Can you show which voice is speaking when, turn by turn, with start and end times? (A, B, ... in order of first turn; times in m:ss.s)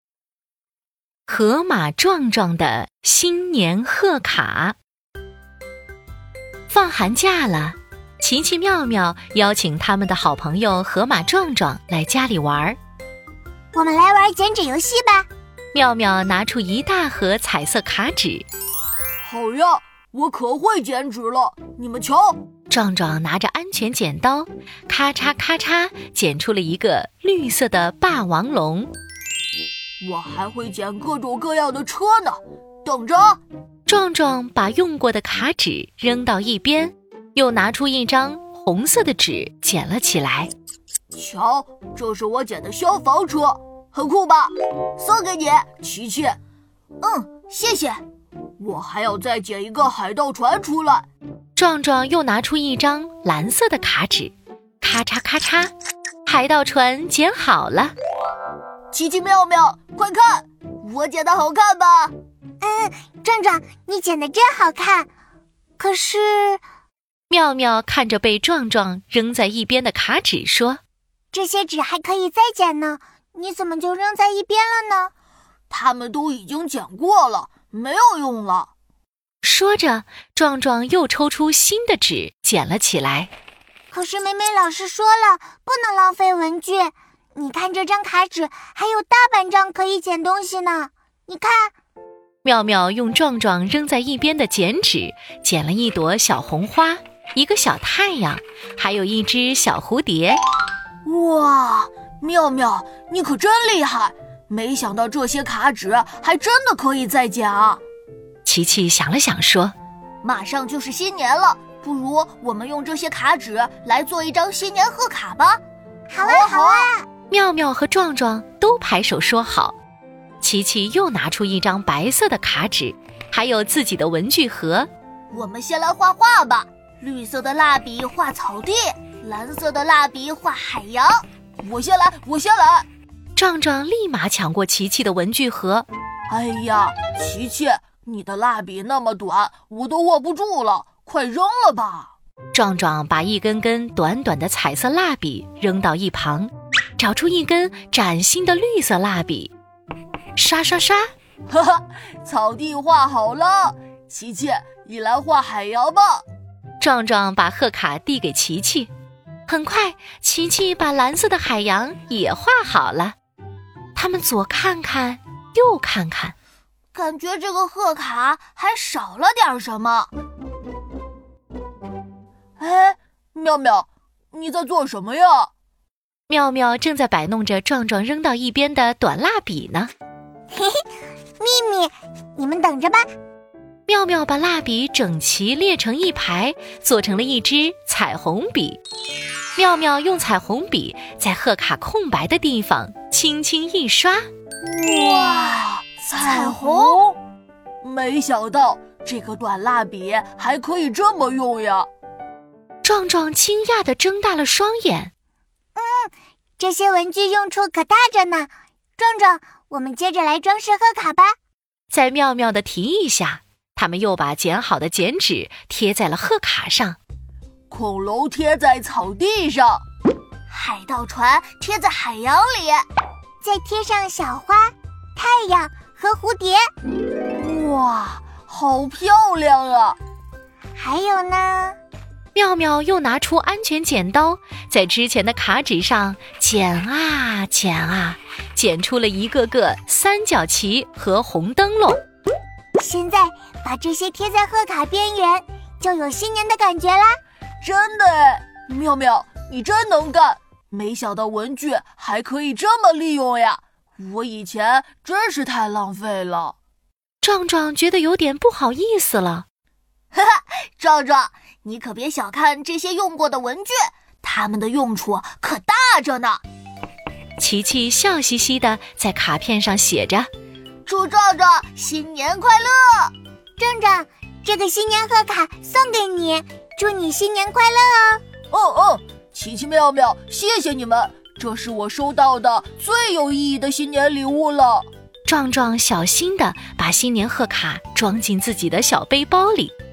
0:01.3-0:04.8 A
0:06.7-0:12.8 A
0:13.7-0:15.3 B
0:15.7-0:18.4 A
0:19.2-0:22.4 C
0:22.7-0:28.9 A
0:30.0-0:33.4 C
0:33.9-0:40.5 A
0:41.1-0:46.4 C
0:47.0-0:48.0 C
0:48.6-0:51.1 C
0:51.6-0:55.7 A
0:56.2-0:57.9 A
0:58.9-1:02.1 C
1:02.6-1:05.1 B
1:05.8-1:06.6 B
1:07.3-1:10.8 A
1:11.3-1:15.1 B
1:15.7-1:18.7 C
1:19.4-1:23.3 A
1:23.9-1:31.7 B
1:32.4-1:40.4 A
1:41.0-1:47.8 C
1:48.4-1:49.7 A
1:50.2-1:55.6 C
1:56.1-1:57.0 B
1:56.2-1:56.9 C
1:57.3-1:59.8 A
2:00.4-2:04.9 A
2:05.3-2:12.9 C
2:13.4-2:15.9 A
2:16.3-2:22.1 C
2:22.5-2:29.5 A
2:30.4-2:31.1 A
2:31.5-2:36.2 C
2:36.8-2:38.9 A
2:39.5-2:43.1 A
2:44.0-2:46.3 A
2:46.9-2:50.1 C
2:52.6-2:55.5 C
2:56.3-2:59.9 A
3:00.5-3:00.8 B
3:01.4-3:03.0 B
3:03.9-3:08.8 A
3:09.6-3:14.3 A
3:14.6-3:17.2 C
3:17.8-3:21.9 C
3:22.8-3:25.1 A
3:25.8-3:31.4 B
3:31.9-3:37.0 A
3:37.7-3:39.8 C
3:40.5-3:42.8 C
3:43.4-3:46.6 B
3:47.4-3:50.0 C
3:50.8-3:51.8 B
3:52.3-4:02.0 A
4:02.8-4:07.2 B
4:07.6-4:16.5 C
4:17.2-4:19.4 A
4:20.1-4:26.4 C
4:27.4-4:30.3 A
4:30.8-4:33.1 C
4:33.6-4:38.2 B
4:38.5-4:44.9 C
4:45.2-4:49.7 A